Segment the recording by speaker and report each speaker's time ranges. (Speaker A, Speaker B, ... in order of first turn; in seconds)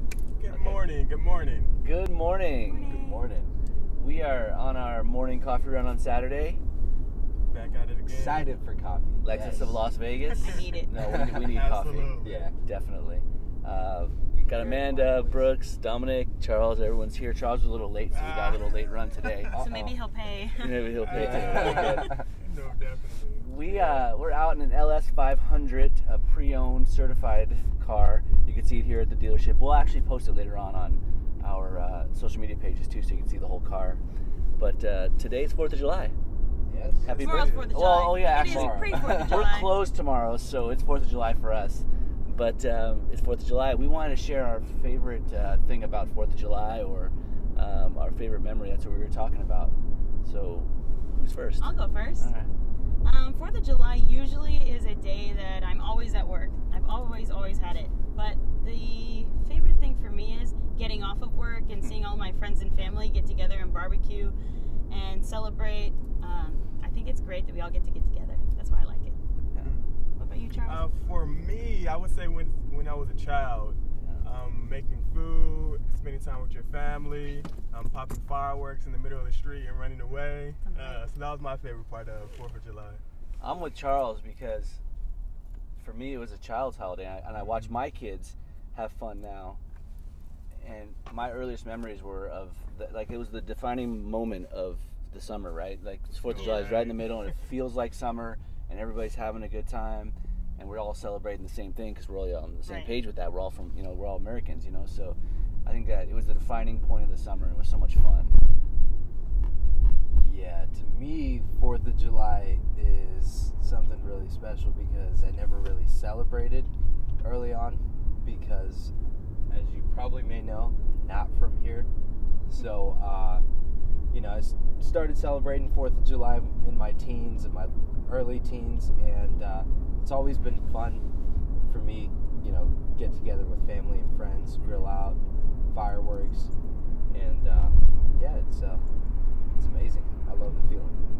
Speaker A: 0.4-1.8, 7.5-8.5, 10.3-10.7, 11.3-12.4, 18.1-19.5, 20.9-23.5, 37.2-37.7, 70.6-83.0, 96.2-97.0
Speaker B: 0.5-0.8, 1.8-2.9, 4.0-6.6, 9.2-19.5, 20.6-22.1, 23.4-34.0, 34.6-36.1, 37.0-49.7, 50.2-52.5, 74.0-74.2, 83.4-84.8, 85.8-89.6, 90.6-108.4
Speaker C: 2.6-3.3, 10.4-10.9, 19.6-20.9, 37.1-39.7, 51.6-52.3, 53.0-64.3, 64.9-69.2, 70.2-70.8, 80.6-81.0, 96.3-96.6, 102.6-103.0
Speaker D: 2.8-3.5, 8.1-9.8, 11.0-11.4, 12.2-12.6, 14.3-15.5, 19.5-20.0, 21.1-22.2, 23.6-24.1, 36.7-37.2, 38.3-39.5, 110.2-118.9, 119.5-121.9, 122.5-123.4, 124.1-131.1, 131.7-135.2, 135.7-136.5, 137.1-138.8, 139.6-141.0